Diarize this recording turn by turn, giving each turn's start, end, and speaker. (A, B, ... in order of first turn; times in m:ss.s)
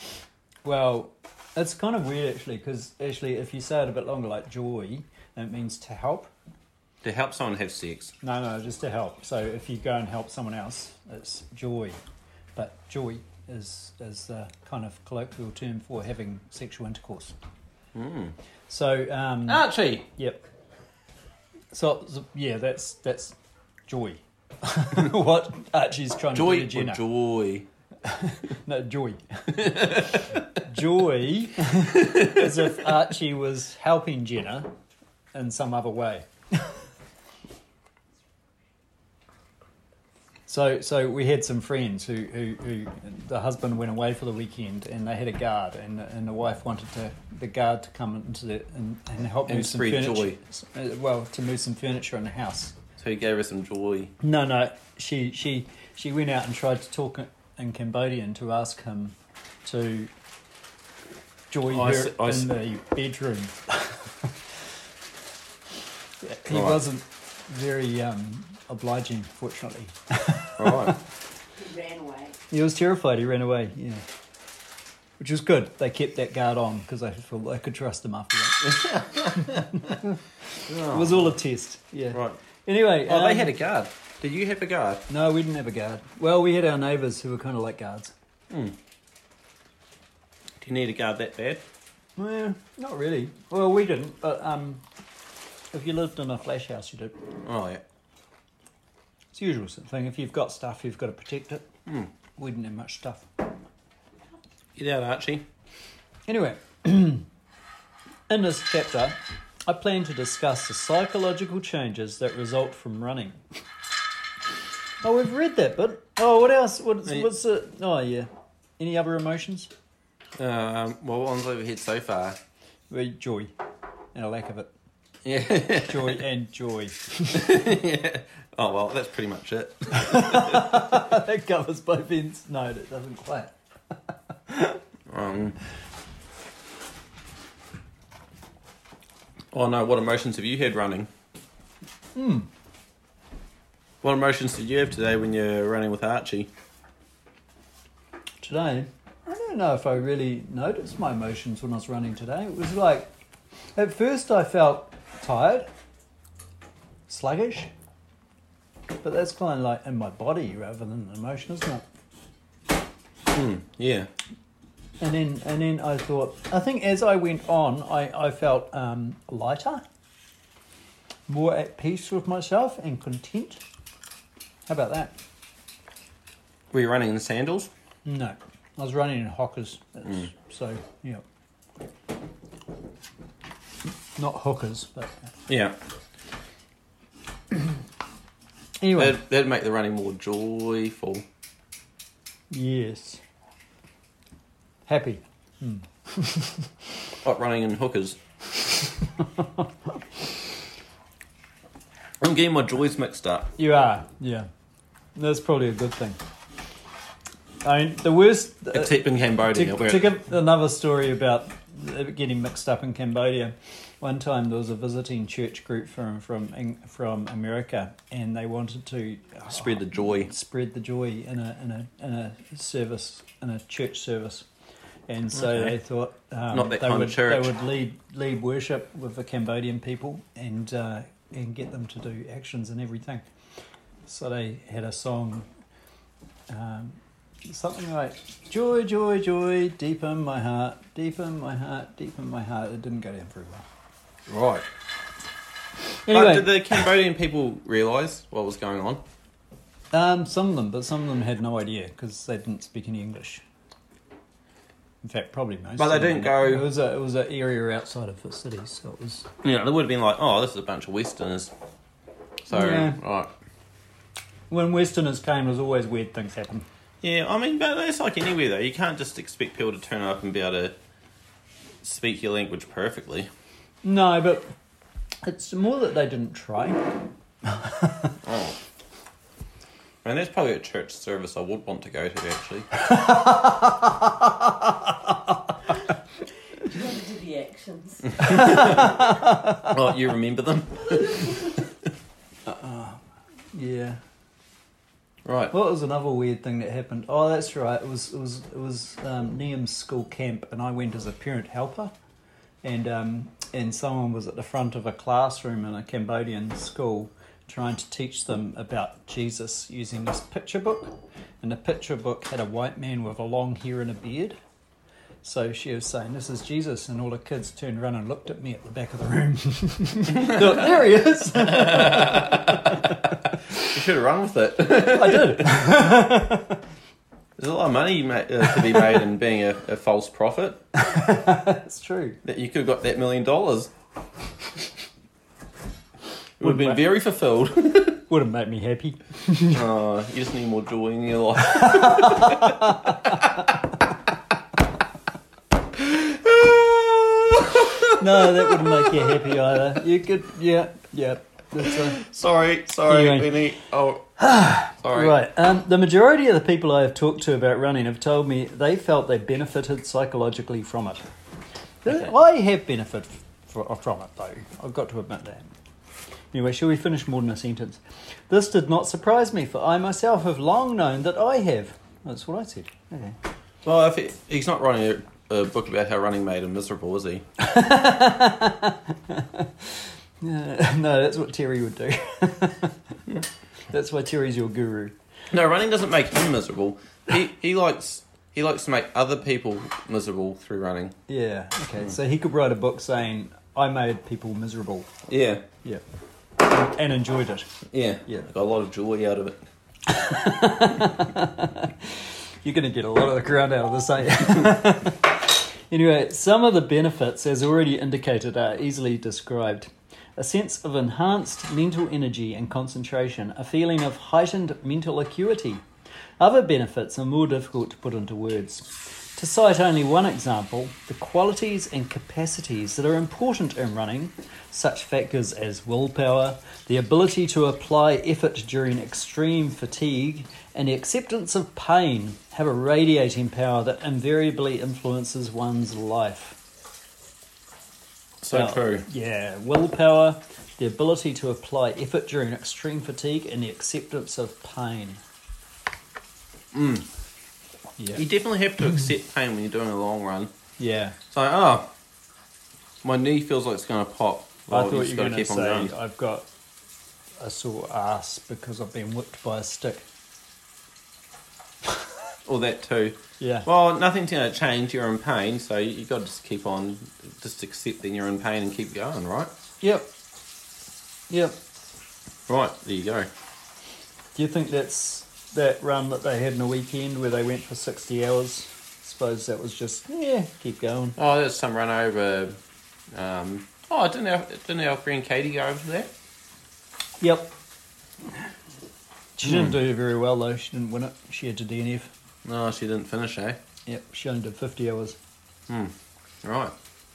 0:00.6-0:06.3 A
0:07.0-0:08.2 B
0:08.2-0:12.0 A
0:12.6-0:17.4 A
0:17.9-0:18.4 B
0:18.7-0:20.4 A
0:19.5-0:20.1 B
0:21.7-0:23.4 A
0:23.9-0:27.0 A
0:26.3-0:27.7 B
0:28.0-0:34.7 A
0:29.5-0:30.4 B
0:32.0-0:32.6 B
0:35.3-0:36.8 A
0:40.5-0:52.8 A
0:49.5-0:50.4 B
0:53.0-0:54.1 B
0:54.2-1:00.1 A
1:01.5-1:04.3 A
1:01.7-1:02.6 B
1:06.2-1:11.0 A
1:06.5-1:06.8 B
1:10.6-1:11.0 B
1:11.6-1:12.4 C
1:12.5-1:14.0 A
1:15.2-1:20.2 A
1:18.6-1:20.0 B
1:20.7-1:21.4 B
1:20.8-1:23.5 A
1:22.1-1:22.4 B
1:23.0-1:25.0 B
1:25.1-1:28.1 A
1:28.5-1:28.8 B
1:30.6-1:31.6 B
1:32.2-1:34.8 A
1:35.7-1:37.2 A
1:37.4-1:37.8 B
1:39.3-1:41.7 A
1:41.9-1:42.1 B
1:42.4-1:43.3 A
1:44.8-1:45.5 B
1:46.3-1:47.3 A
1:48.3-1:53.4 A
1:55.0-1:59.7 A
2:00.4-2:02.4 B
2:02.9-2:03.5 A
2:04.2-2:04.7 A
2:05.2-2:06.2 B
2:05.8-2:07.5 A
2:07.3-2:11.0 B
2:09.9-2:13.6 A
2:14.5-2:14.8 A
2:15.1-2:15.6 B
2:19.5-2:21.1 B
2:22.2-2:22.5 A
2:24.0-2:26.5 B
2:28.4-2:33.1 A
2:33.8-2:35.7 A
2:37.1-2:37.7 A
2:39.0-2:41.8 A
2:43.3-2:44.1 B
2:45.0-2:49.8 A
2:51.3-2:53.6 A
2:54.7-2:55.2 A
2:56.7-2:57.7 B
2:58.0-3:01.2 A
3:04.2-3:05.3 A
3:05.5-3:05.8 B
3:08.8-3:09.2 A
3:09.0-3:11.2 B
3:12.5-3:13.2 A
3:14.9-3:16.7 A
3:17.2-3:18.2 B
3:19.0-3:19.7 A
3:22.2-3:23.5 B
3:23.6-3:24.5 A
3:25.2-3:26.2 A
3:27.6-3:44.5 A
3:28.7-3:30.1 B
3:39.5-3:40.3 B
3:45.1-3:53.3 A
3:45.3-3:45.8 B
3:46.5-3:47.6 B
3:54.1-3:55.5 A
3:56.5-4:03.7 A
4:04.3-4:04.7 B
4:06.0-4:06.9 A
4:06.1-4:09.0 B
4:09.9-4:13.4 A
4:15.0-4:19.3 A
4:15.8-4:16.7 B
4:19.4-4:21.5 B
4:22.5-4:23.3 B
4:22.5-4:23.0 A
4:24.5-4:26.7 A
4:27.0-4:30.8 B
4:31.8-4:33.3 B
4:33.8-4:34.5 A
4:35.2-4:36.9 A
4:37.4-4:38.2 A
4:38.2-4:38.6 B
4:40.0-4:42.7 B
4:42.8-4:45.5 A
4:46.6-4:48.6 C
4:48.1-4:51.7 B
4:48.2-4:49.7 A
4:51.0-4:51.3 C
4:52.5-4:53.0 A
4:53.5-4:54.0 A
4:55.2-4:55.5 B
4:55.5-5:01.9 A
5:02.6-5:14.4 A
5:15.2-5:23.7 A
5:20.1-5:20.7 B
5:21.3-5:25.7 B
5:24.8-5:26.6 A
5:27.4-5:30.6 B
5:30.8-5:32.2 A
5:32.2-5:33.7 B
5:36.4-5:38.0 B
5:36.4-5:36.8 A
5:38.1-5:39.6 A
5:39.5-5:43.5 B
5:41.4-5:43.6 A
5:45.8-5:49.3 B
5:47.9-5:52.0 A
5:51.6-5:54.1 B
5:52.9-5:53.4 A
5:54.2-6:01.0 A
5:54.8-5:55.2 B
6:01.8-6:05.5 A
6:06.3-6:13.2 A
6:13.6-6:17.2 B
6:17.4-6:24.9 A
6:25.3-6:31.0 B
6:31.1-6:34.9 A
6:35.1-6:35.4 B
6:36.4-6:37.6 A
6:37.7-6:39.4 B
6:39.9-6:55.6 A
6:56.2-7:16.4 A
7:18.2-7:18.9 B
7:18.3-7:25.0 A
7:26.5-7:26.9 B
7:27.8-7:28.0 A
7:27.9-7:30.3 B
7:30.6-7:31.0 A
7:31.1-7:31.7 B
7:32.8-7:35.7 B
7:34.5-7:36.3 A
7:37.2-7:39.8 A
7:42.3-7:49.3 B
7:43.2-7:43.5 A
7:49.6-7:49.9 A
7:51.1-7:51.4 A
7:52.3-7:53.1 B
7:54.2-8:01.0 A
8:01.0-8:02.4 B
8:02.9-8:05.9 B
8:07.0-8:07.3 A
8:09.2-8:11.9 A
8:09.2-8:09.6 B
8:12.2-8:13.4 B
8:13.7-8:15.0 A
8:15.5-8:16.5 B